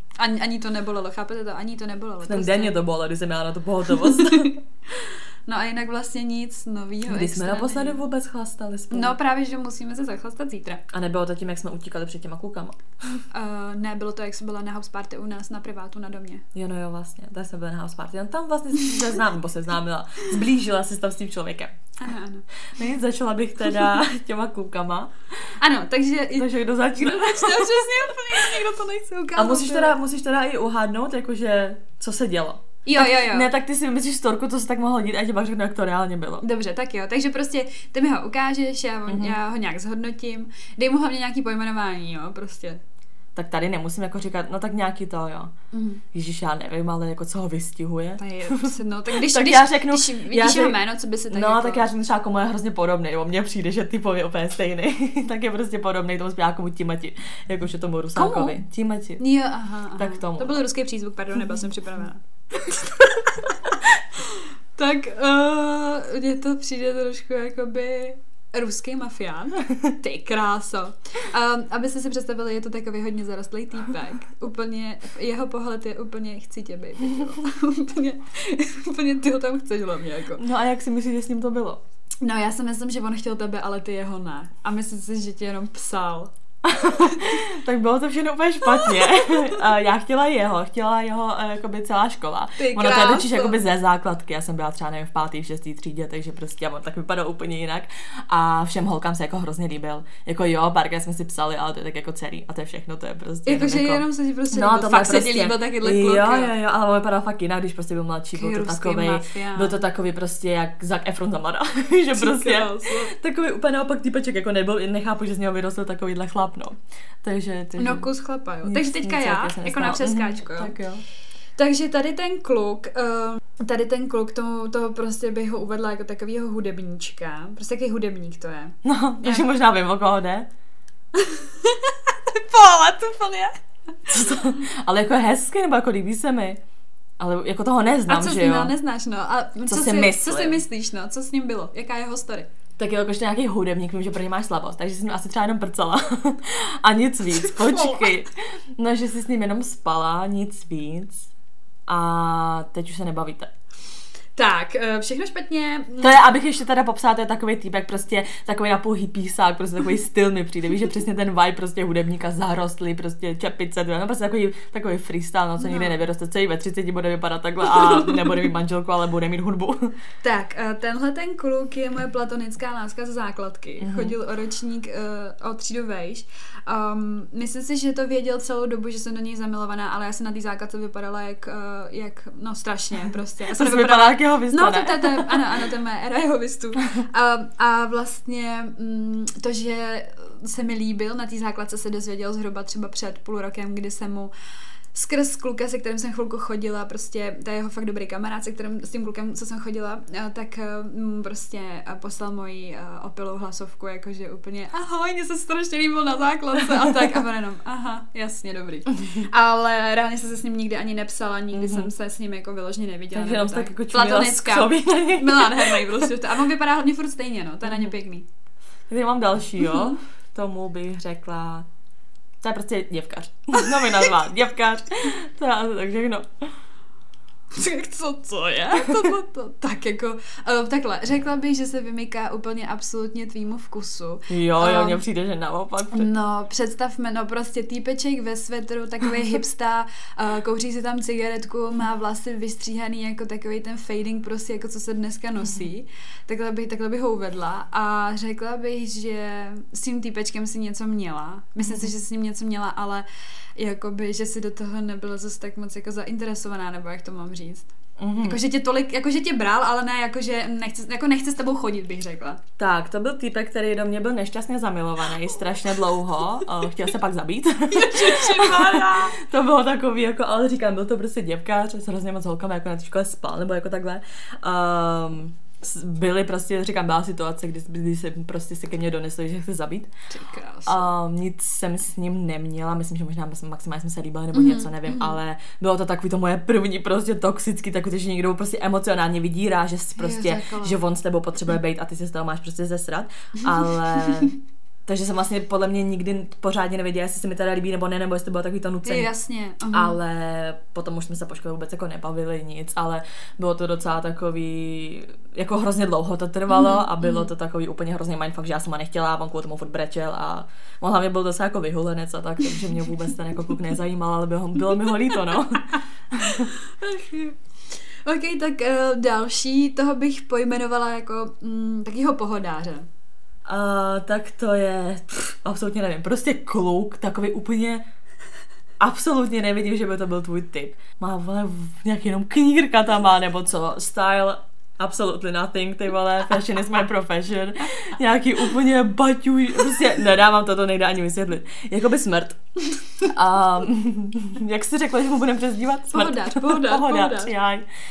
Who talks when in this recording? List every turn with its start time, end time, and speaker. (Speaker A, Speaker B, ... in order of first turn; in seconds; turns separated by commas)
Speaker A: 0.1-2.8, Speaker B: 2.2-4.6, Speaker A: 4.0-8.0, Speaker B: 7.1-9.2, Speaker A: 8.9-10.8, Speaker B: 10.9-13.2, Speaker A: 13.3-16.4, Speaker B: 16.5-21.7, Speaker A: 22.0-22.4, Speaker B: 22.6-25.5, Speaker A: 25.6-29.9, Speaker B: 26.4-28.4, Speaker B: 29.4-36.4, Speaker A: 32.9-33.5, Speaker A: 36.4-42.8, Speaker B: 39.1-39.4, Speaker B: 43.4-45.5, Speaker A: 45.7-46.0, Speaker B: 46.1-59.2, Speaker A: 48.2-51.9, Speaker A: 58.1-58.6, Speaker A: 59.2-80.4, Speaker B: 59.9-60.6, Speaker B: 80.3-81.8, Speaker A: 82.2-86.3, Speaker B: 86.6-118.1, Speaker A: 92.6-93.6, Speaker A: 103.5-106.5, Speaker A: 108.3-109.8, Speaker A: 112.1-113.1, Speaker A: 117.8-120.7, Speaker B: 118.6-121.0, Speaker A: 121.5-129.4, Speaker B: 128.8-130.5, Speaker A: 131.1-134.3, Speaker B: 134.1-136.6, Speaker B: 137.2-138.7, Speaker A: 138.1-142.5, Speaker B: 139.7-140.6, Speaker B: 142.8-151.3, Speaker A: 147.6-148.1, Speaker B: 151.9-153.5, Speaker A: 154.3-156.2, Speaker B: 156.0-169.9, Speaker A: 165.6-166.0, Speaker A: 167.6-168.4, Speaker A: 170.2-194.3, Speaker B: 173.8-174.1, Speaker B: 183.5-185.4, Speaker A: 194.9-218.3, Speaker B: 211.5-211.9, Speaker B: 213.1-216.1, Speaker B: 218.9-221.7, Speaker B: 222.4-226.5, Speaker A: 223.6-224.1, Speaker A: 227.5-235.0, Speaker B: 234.3-236.1, Speaker A: 235.9-262.4, Speaker B: 258.0-258.4, Speaker B: 262.6-279.9, Speaker A: 267.7-269.2, Speaker A: 280.1-280.9, Speaker B: 280.6-299.1, Speaker A: 284.3-285.2, Speaker A: 290.0-290.8, Speaker A: 293.5-294.3, Speaker A: 298.8-300.0, Speaker B: 299.7-316.5, Speaker A: 306.5-307.3, Speaker A: 316.5-322.9, Speaker B: 323.5-327.8, Speaker B: 328.8-342.4, Speaker B: 343.0-347.6, Speaker A: 345.9-347.3